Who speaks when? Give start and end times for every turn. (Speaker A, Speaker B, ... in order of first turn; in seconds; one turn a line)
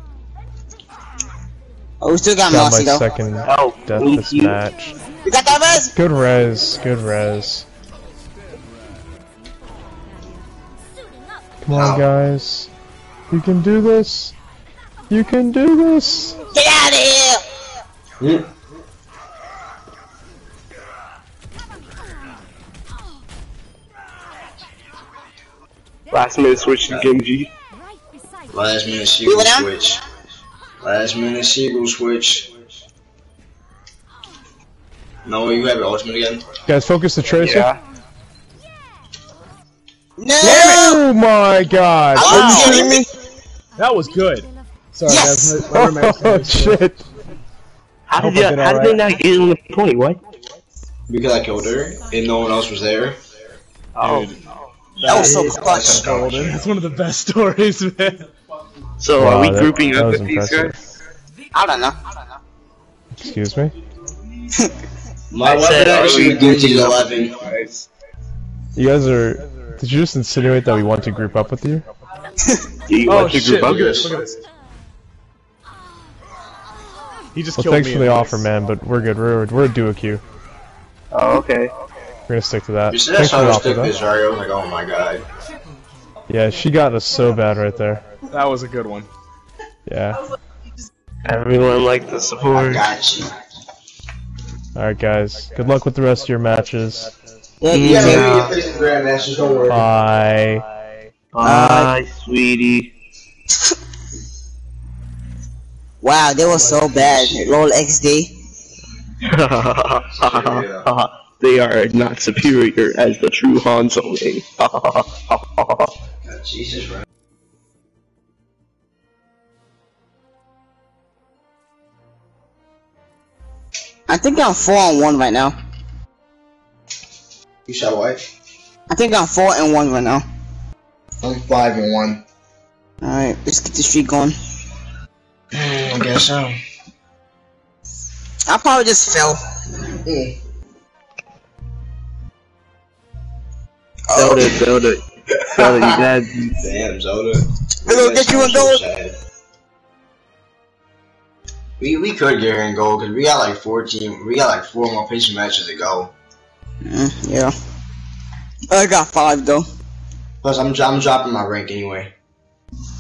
Speaker A: 2.0-3.0
Speaker B: 2.5-5.0
Speaker C: 3.5-4.6
Speaker A: 5.2-5.9
Speaker B: 6.0-7.7
Speaker B: 11.6-12.7
Speaker D: 11.7-12.1
Speaker B: 13.3-14.3
Speaker B: 15.1-16.4
Speaker A: 16.5-17.4
Speaker D: 18.2-18.5
Speaker C: 26.1-27.5
Speaker D: 28.5-30.0
Speaker A: 29.3-29.7
Speaker D: 30.8-32.5
Speaker D: 35.2-36.5
Speaker B: 36.7-37.7
Speaker C: 37.4-37.8
Speaker A: 40.2-41.0
Speaker B: 40.4-43.0
Speaker A: 42.2-43.1
Speaker C: 42.3-42.9
Speaker E: 43.8-46.8
Speaker A: 45.1-45.7
Speaker B: 45.7-47.0
Speaker C: 48.1-50.2
Speaker E: 48.1-49.1
Speaker D: 51.1-53.2
Speaker C: 54.0-56.1
Speaker E: 54.0-54.4
Speaker A: 55.0-56.0
Speaker D: 55.6-56.6
Speaker E: 55.8-58.3
Speaker C: 59.0-60.8
Speaker B: 59.2-60.8
Speaker A: 61.5-62.3
Speaker B: 63.2-63.8
Speaker D: 65.3-67.4
Speaker C: 65.4-67.9
Speaker B: 68.8-71.9
Speaker C: 72.9-74.1
Speaker E: 73.1-74.4
Speaker D: 73.7-74.1
Speaker E: 77.3-78.5
Speaker B: 77.6-80.2
Speaker C: 81.1-81.7
Speaker B: 82.3-83.9
Speaker D: 82.9-85.3
Speaker B: 86.3-88.1
Speaker E: 88.2-89.1
Speaker B: 89.9-90.2
Speaker C: 91.2-92.9
Speaker D: 92.5-93.3
Speaker B: 94.8-97.1
Speaker A: 97.6-98.5
Speaker C: 97.7-98.5
Speaker D: 97.8-99.9
Speaker B: 99.7-100.7
Speaker C: 101.3-102.9
Speaker A: 101.4-101.9
Speaker A: 106.0-108.3
Speaker D: 106.5-107.5
Speaker C: 109.2-115.9
Speaker D: 110.2-110.9
Speaker D: 116.2-117.0
Speaker A: 124.1-125.5
Speaker D: 127.7-128.3
Speaker A: 128.9-130.2
Speaker D: 131.2-132.2
Speaker A: 133.0-134.3
Speaker D: 135.5-136.6
Speaker A: 138.5-139.4
Speaker D: 140.0-140.4
Speaker A: 144.1-144.6
Speaker C: 144.1-146.6
Speaker D: 145.4-145.9
Speaker D: 146.6-149.2
Speaker A: 147.9-148.8
Speaker D: 151.8-156.1
Speaker A: 156.8-157.5
Speaker A: 158.7-159.7
Speaker D: 160.4-162.1